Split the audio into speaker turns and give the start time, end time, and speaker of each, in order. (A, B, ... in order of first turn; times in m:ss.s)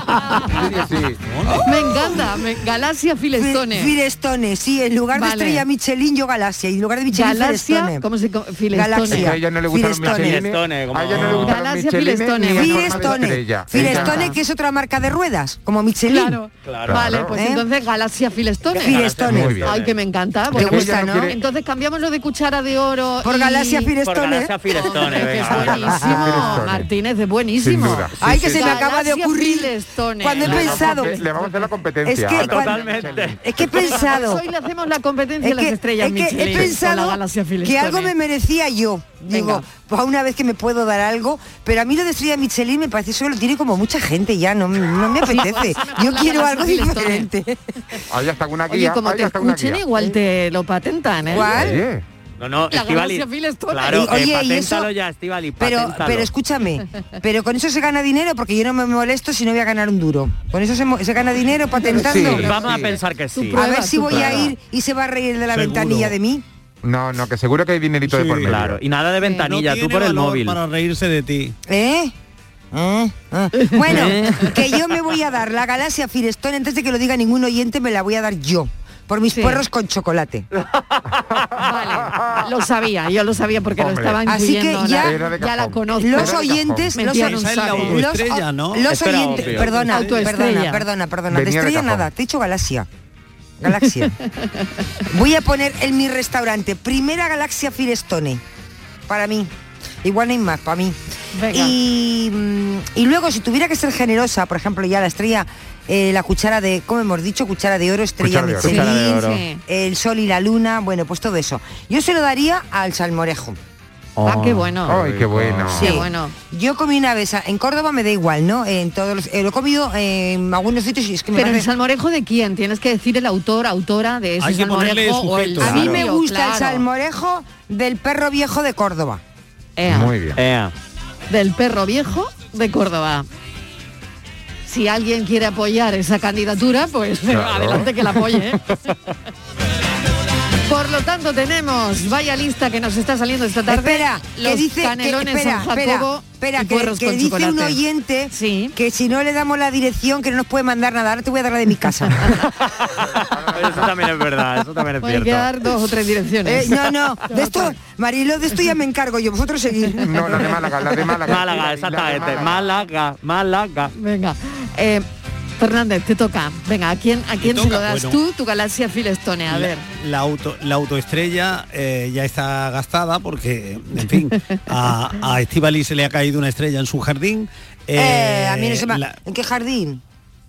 0:00.4-0:01.2 A
0:01.2-0:02.2 B
0:01.6-0:03.9 C
0:03.4-0:08.0 D
0:05.1-0:05.6 C
0:07.1-0:09.3 C
0:08.7-0:10.4 D
0:09.1-0:14.3 A
0:10.0-0:11.6 E
0:11.3-0:14.4 C
0:12.5-0:16.4 D
0:16.1-0:19.1 C
0:16.6-0:17.1 E
0:16.9-0:17.3 A
0:17.3-0:17.6 D
0:18.7-0:19.7 D
0:18.8-0:19.9 E
0:19.2-0:19.8 A
0:19.6-0:23.9 C
0:20.5-0:21.4 D
0:20.5-0:21.4 A
0:23.2-0:26.4 D
0:24.0-0:26.6 E
0:24.7-0:31.4 C
0:25.9-0:26.9 A
0:27.6-0:28.8 A
0:28.2-0:31.2 D
0:30.4-0:33.4 A
0:32.0-0:32.9 D
0:32.3-0:33.4 E
0:33.4-0:34.4 D
0:33.7-0:38.1 C
0:35.4-0:47.6 D
0:39.3-0:39.6 C
0:45.2-0:47.3 C
0:48.1-0:49.8 A
0:48.7-0:51.6 C
0:51.3-0:51.8 D
0:51.3-0:52.0 A
0:52.4-0:56.3 E
0:52.7-0:54.1 C
0:53.9-0:54.9 D
0:55.6-1:02.6 D
1:01.9-1:02.6 C
1:01.9-1:03.0 A
1:02.1-1:04.5 E
1:03.3-1:04.5 C
1:03.5-1:06.4 D
1:05.5-1:06.1 B
1:06.8-1:08.8 A
1:08.0-1:08.6 B
1:08.4-1:10.6 E
1:09.4-1:11.5 B
1:11.6-1:12.1 D
1:12.7-1:20.4 D
1:13.6-1:14.5 C
1:13.9-1:14.4 E
1:19.3-1:19.6 C
1:21.4-1:22.5 A
1:21.6-1:27.9 C
1:23.8-1:24.2 A
1:24.2-1:25.2 D
1:24.9-1:27.0 A
1:26.0-1:32.9 D
1:27.1-1:30.2 B
1:28.9-1:29.8 E
1:29.9-1:30.8 C
1:31.3-1:32.1 A
1:33.6-1:34.1 D
1:34.4-1:34.6 C
1:35.1-1:38.4 D
1:39.1-1:39.5 D
1:40.0-1:41.0 D
1:41.3-1:41.8 C
1:41.5-1:53.6 D
1:48.2-1:48.8 A
1:48.6-1:49.4 E
1:48.6-1:49.6 C
1:54.2-1:55.9 E
1:54.2-1:55.0 C
1:54.9-1:56.0 A
1:55.7-2:01.7 D
1:55.7-1:56.3 C
2:01.3-2:06.8 C
2:04.4-2:06.0 B
2:05.6-2:09.2 D
2:05.6-2:06.0 E
2:09.8-2:10.1 C
2:09.9-2:10.4 A
2:10.4-2:10.7 E
2:11.3-2:13.3 C
2:14.6-2:18.6 C
2:17.3-2:17.9 A
2:20.7-2:28.7 C
2:23.7-2:32.4 D
2:33.2-2:33.9 A
2:33.5-2:35.6 E
2:35.0-2:37.8 C
2:36.4-2:40.5 D
2:40.0-2:42.7 A
2:41.2-2:43.9 E
2:44.0-2:45.0 C
2:45.6-2:49.8 C
2:47.4-2:48.2 B
2:49.5-2:59.2 B
2:54.3-2:54.6 C
2:57.9-3:00.0 D